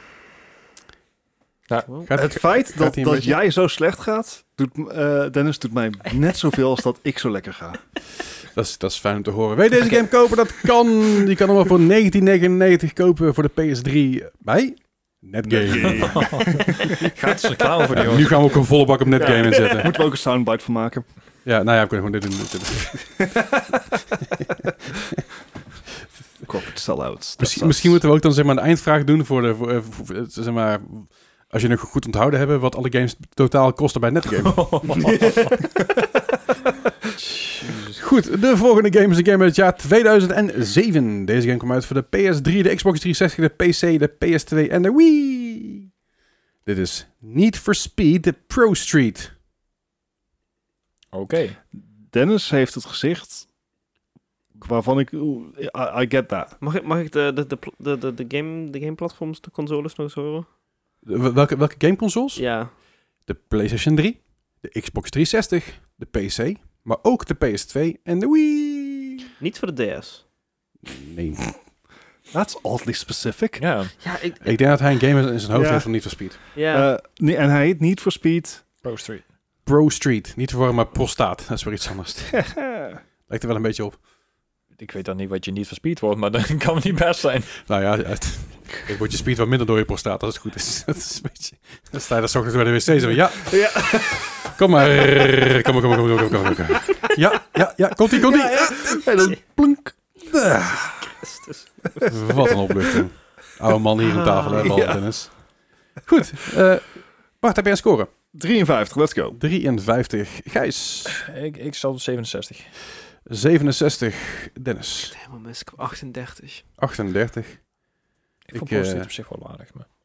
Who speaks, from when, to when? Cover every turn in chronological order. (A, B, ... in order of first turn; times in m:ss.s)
0:02.0-0:03.4 A
0:02.1-0:07.8 B
0:08.5-0:16.5 A
0:15.4-0:17.0 B
0:15.8-0:18.6 C
0:17.9-0:19.9 A
0:19.1-0:21.0 B
0:19.2-0:19.8 D
0:21.4-0:23.3 A
0:23.4-0:23.7 B
0:26.4-0:28.0 B
0:27.4-0:35.1 A
0:34.4-0:35.6 C
0:37.6-0:38.0 C
0:38.0-0:45.9 A
0:46.6-0:49.3 A
0:51.1-0:51.6 C
0:52.1-0:53.5 B
0:54.6-0:56.6 B
0:56.6-1:00.5 D
1:01.0-1:09.2 A
1:02.4-1:02.7 D
1:09.4-1:10.2 D
1:10.8-1:11.5 A
1:12.3-1:13.6 B
1:13.6-1:13.9 C
1:14.0-1:14.6 D
1:14.4-1:16.4 A
1:15.5-1:18.6 B
1:16.6-1:16.9 D
1:18.8-1:19.2 C
1:19.6-1:22.6 A
1:22.4-1:23.0 B
1:23.3-1:24.0 A
1:24.8-1:27.7 C
1:27.6-1:39.0 A
1:33.4-1:34.3 B
1:38.2-1:40.7 B
1:38.6-1:39.4 D
1:41.0-1:42.8 D
1:42.1-1:45.4 A
1:44.0-1:45.0 D
1:44.6-1:45.0 B
1:46.0-1:48.1 A
1:48.3-1:49.4 B
1:49.4-1:51.2 A
1:51.1-1:52.7 C
1:53.3-1:55.1 A
1:55.0-1:56.6 D
1:56.8-1:57.6 A
1:58.5-1:59.9 C
1:58.5-1:59.1 A